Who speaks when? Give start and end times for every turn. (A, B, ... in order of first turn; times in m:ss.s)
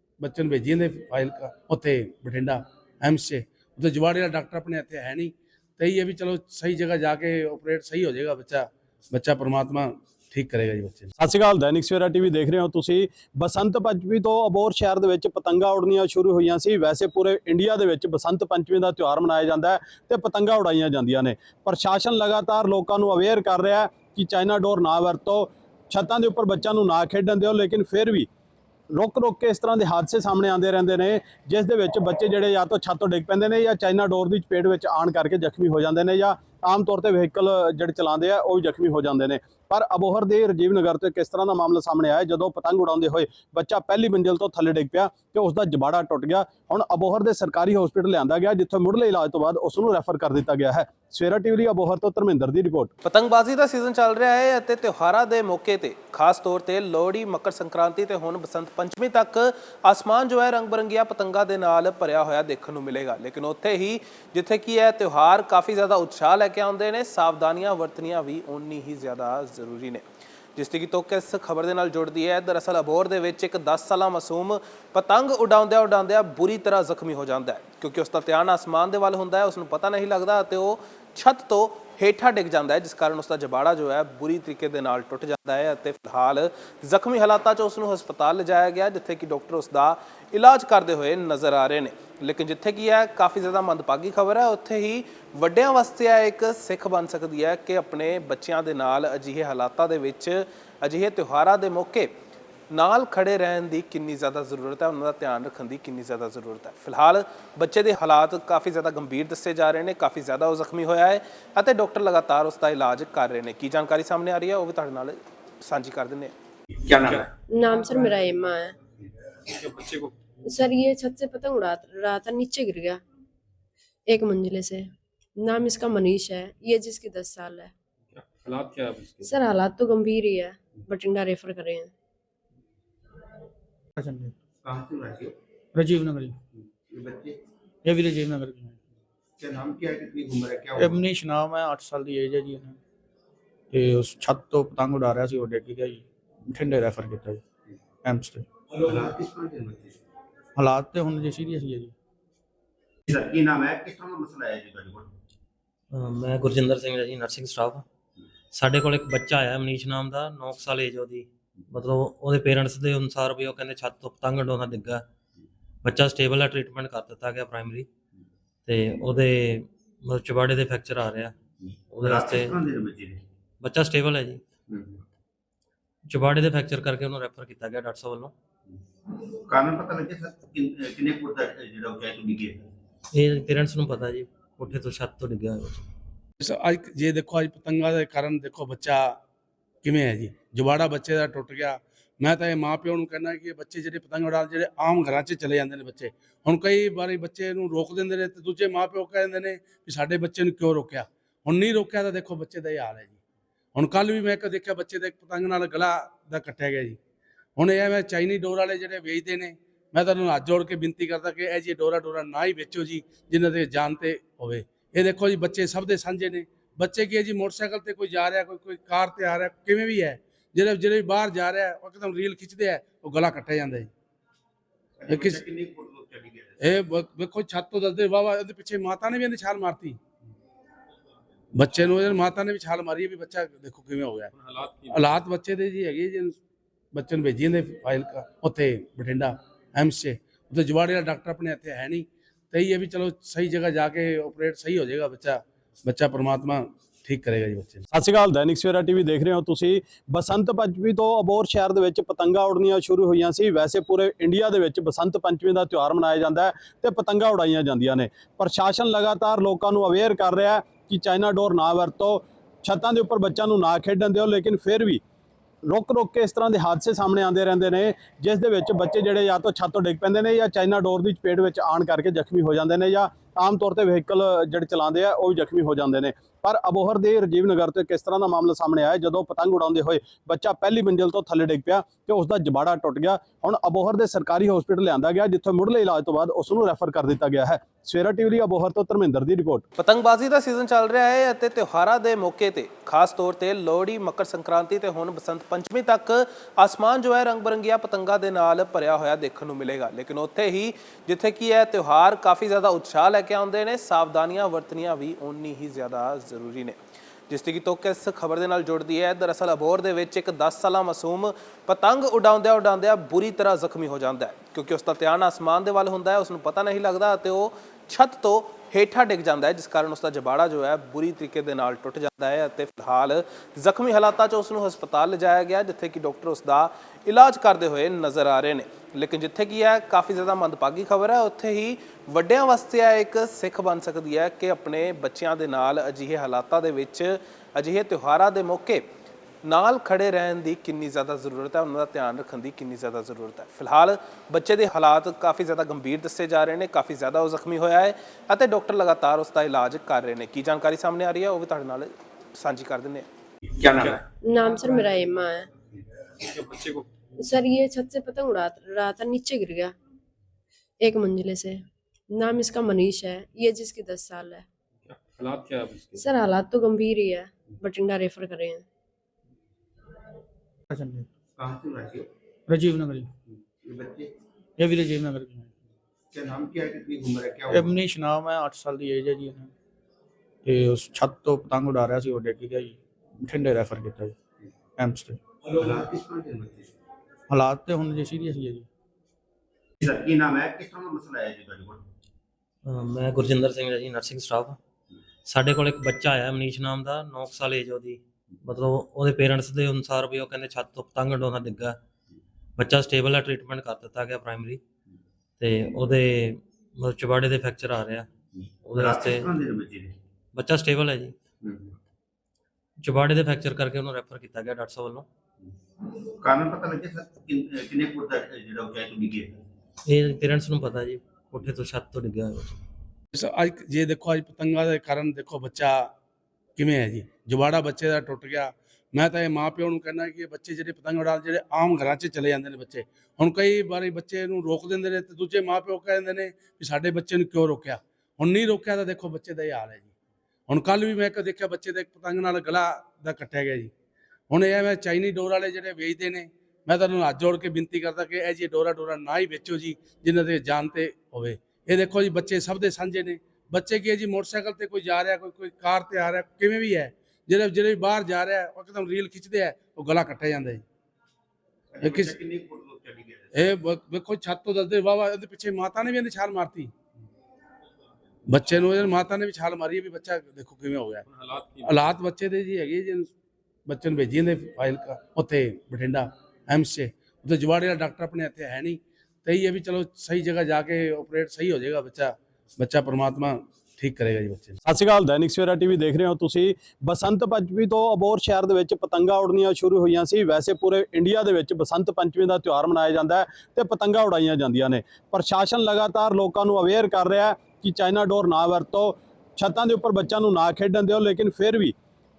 0:00.2-0:11.1 A
0:11.2-0:28.3 B
0:28.9-0:52.9 B
0:53.0-1:10.0 C
1:10.6-1:42.1 C
1:42.7-1:56.3 C
1:56.9-1:57.3 D
1:57.5-1:58.8 E
1:59.6-2:00.1 F
2:00.5-2:03.0 E
2:04.1-2:07.7 E
2:08.2-2:09.5 F
2:09.2-2:11.9 E
2:14.0-2:14.4 G
2:14.6-2:15.3 D
2:15.8-2:16.4 G
2:16.6-2:17.4 D
2:17.8-2:18.8 G
2:19.4-2:21.0 D
2:20.8-2:22.8 G
2:23.7-2:27.4 G
2:28.0-2:28.5 G
2:28.8-2:30.0 D
2:30.6-2:31.9 G
2:33.1-2:35.1 D
2:35.9-2:37.8 H
2:38.5-2:45.0 H
2:45.8-2:47.9 H
2:48.7-2:51.3 H
2:51.9-2:52.6 H
2:52.0-2:53.2 D
2:53.6-2:54.4 H
2:54.7-2:55.0 D
2:56.1-2:58.3 H
2:59.1-3:02.7 D
3:03.1-3:05.8 H
3:06.4-3:09.2 A
3:09.8-3:23.2 A
3:23.8-3:27.0 A
3:27.6-3:43.9 A
3:45.0-3:46.8 D
3:45.1-3:45.4 A
3:46.6-3:50.0 A
3:51.6-3:54.3 A
3:54.9-3:56.4 A
3:56.9-4:07.9 A
4:07.9-4:25.0 B
4:25.6-4:49.6 B
4:49.8-5:06.8 C
5:07.3-5:38.9 C
5:39.4-5:53.1 C
5:53.6-5:53.9 D
5:54.3-5:55.5 E
5:56.3-5:56.8 F
5:57.2-5:59.8 E
6:00.8-6:04.5 E
6:04.9-6:06.2 F
6:06.0-6:08.7 E
6:10.7-6:11.1 G
6:11.4-6:12.1 D
6:12.5-6:13.1 G
6:13.6-6:14.1 D
6:14.6-6:15.5 G
6:16.1-6:17.7 D
6:17.5-6:19.5 G
6:20.4-6:24.2 G
6:24.8-6:25.2 G
6:25.5-6:26.7 D
6:27.3-6:28.7 G
6:29.8-6:31.8 D
6:32.6-6:34.6 H
6:35.3-6:41.8 H
6:42.6-6:44.6 H
6:45.4-6:48.1 H
6:48.6-6:49.3 H
6:48.8-6:50.0 D
6:50.3-6:51.2 H
6:51.4-6:51.8 D
6:52.8-6:55.1 H
6:55.8-6:59.4 D
6:59.9-7:02.6 H
7:03.1-7:05.9 A
7:06.6-7:19.9 A
7:20.5-7:23.7 A
7:24.3-7:40.6 A
7:41.7-7:43.3 D
7:41.8-7:42.1 A
7:43.3-7:46.7 A
7:48.3-7:51.1 A
7:51.6-7:53.1 A
7:53.7-8:04.6 A
8:04.6-8:21.8 B